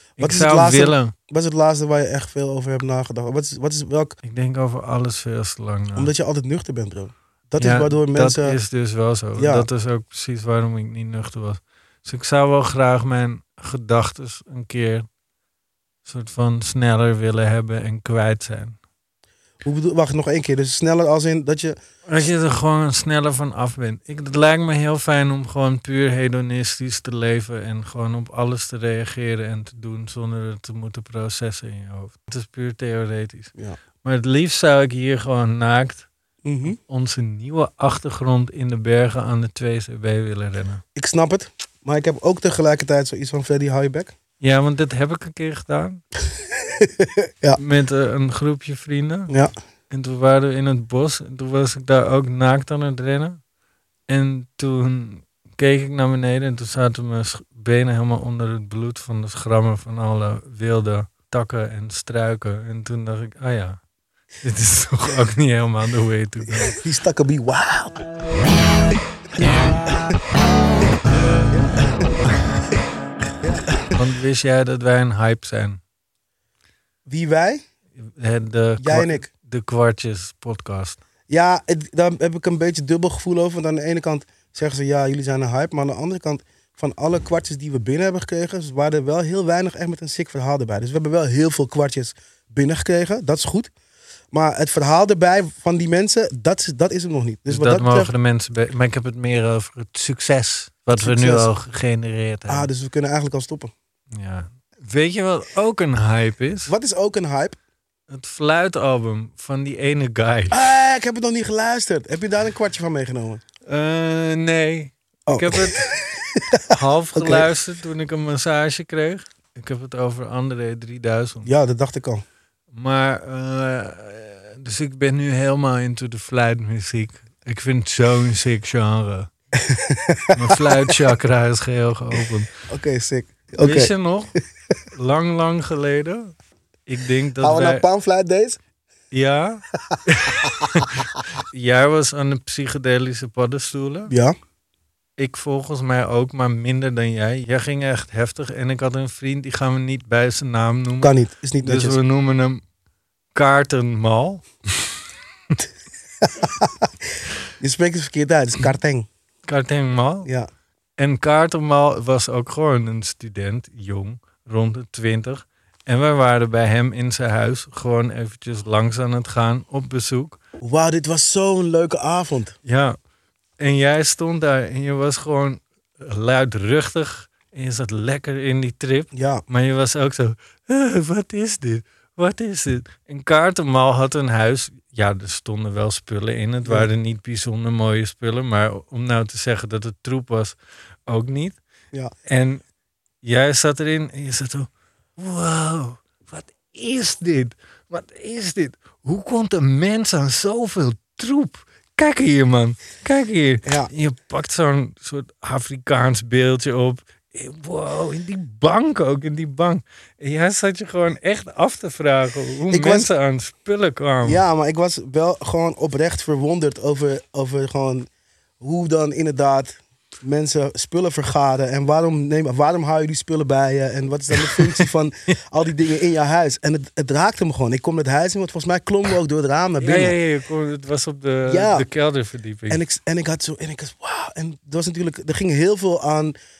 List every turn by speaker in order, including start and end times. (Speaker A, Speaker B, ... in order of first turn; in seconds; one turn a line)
Speaker A: 0.2-1.1
Speaker B: 0.2-4.2
Speaker A: 4.2-6.1
Speaker B: 5.9-8.6
Speaker A: 7.6-15.1
Speaker B: 9.4-9.7
Speaker A: 16.0-18.8
Speaker B: 19.6-21.8
Speaker A: 22.1-33.5
Speaker A: 34.0-36.1
Speaker B: 36.4-36.8
Speaker A: 36.7-40.8
Speaker B: 41.0-44.1
Speaker A: 44.4-46.0
Speaker B: 46.6-47.6
Speaker A: 47.6-49.3
Speaker B: 49.3-49.5
Speaker A: 49.9-53.4
Speaker A: 54.1-63.8
Speaker A: 64.4-66.8
Speaker B: 66.5-68.0
Speaker B: 73.5-73.9
Speaker A: 73.9-75.8
Speaker B: 77.0-77.6
Speaker A: 78.0-81.0
Speaker B: 78.8-79.3
Speaker B: 81.3-93.7
Speaker B: 94.3-98.1
Speaker A: 97.5-102.7
Speaker B: 101.0-101.5
Speaker B: 102.5-103.7
Speaker A: 104.1-106.7
Speaker B: 106.7-107.6
Speaker A: 108.1-110.6
Speaker B: 110.5-113.4
Speaker A: 113.7-115.9
Speaker B: 115.3-117.5
Speaker A: 116.7-121.5
Speaker B: 121.4-122.2
Speaker A: 122.7-129.3
Speaker B: 129.6-130.9
Speaker A: 130.3-132.5
Speaker B: 132.7-133.9
Speaker A: 133.6-134.3
Speaker A: 134.9-136.3
Speaker A: 136.9-137.8
Speaker B: 137.4-138.6
Speaker A: 139.1-144.1
Speaker B: 139.9-140.6
Speaker B: 144.1-144.3
Speaker A: 145.2-152.6
Speaker B: 151.0-152.0
Speaker A: 153.3-154.4
Speaker B: 156.2-157.1
Speaker B: 157.6-159.1
Speaker A: 159.4-160.3
Speaker B: 160.2-160.5
Speaker A: 161.0-170.4
Speaker B: 170.6-172.6
Speaker A: 172.6-173.0
Speaker A: 173.6-191.6
Speaker B: 179.1-179.4
Speaker A: 192.2-192.6
Speaker A: 193.2-214.4
Speaker B: 203.6-203.9
Speaker B: 212.7-213.1
Speaker B: 214.2-218.1
Speaker B: 218.6-230.2
Speaker A: 224.3-224.9
Speaker A: 229.8-232.8
Speaker B: 231.4-231.9
Speaker B: 232.7-236.3